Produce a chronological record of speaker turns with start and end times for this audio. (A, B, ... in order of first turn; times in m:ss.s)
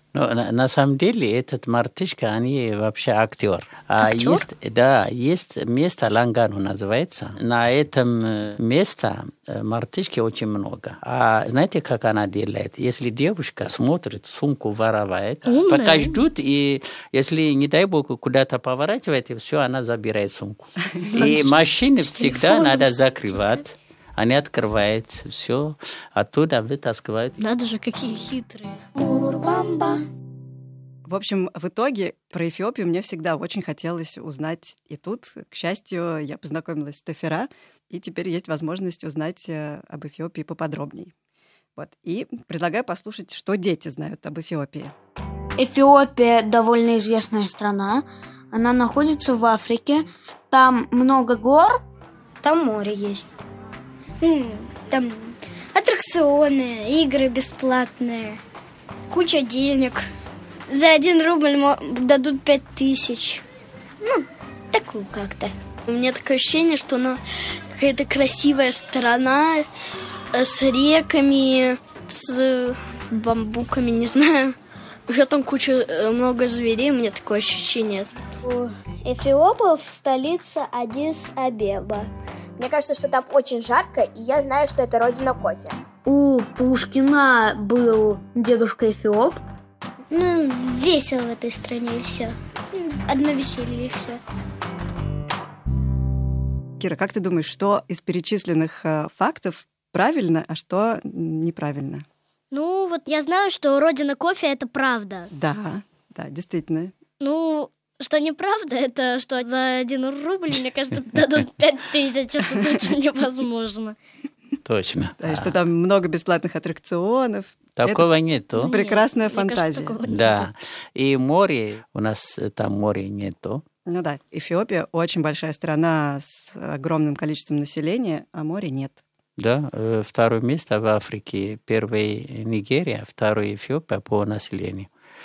0:00.1-0:27.4 A
0:04.0-0:04.4 B
0:15.5-0:16.2 B
0:21.0-0:23.6 B
0:27.4-0:28.8 B
0:29.0-0:30.0 C
0:31.0-0:41.1 D
0:41.8-0:44.9 D
0:45.6-0:51.8 E
0:54.2-0:58.4 F
0:59.1-1:00.0 F
1:00.7-1:03.4 F
1:04.0-1:05.5 F
1:05.8-1:07.2 G
1:07.7-1:09.7 G
1:10.3-1:14.6 G
1:15.1-1:18.1 G
1:18.4-1:22.1 F
1:22.6-1:25.8 C
1:26.0-1:29.4 E
1:30.1-1:34.2 F
1:36.8-1:42.0 D
1:42.5-1:45.3 B
1:45.3-1:46.9 D
1:47.2-1:54.0 B
1:54.6-1:55.5 A
1:55.2-2:00.0 D
1:57.8-1:58.7 A
1:58.6-2:00.5 B
2:00.0-2:03.6 A
2:03.8-2:09.0 D
2:09.4-2:14.9 A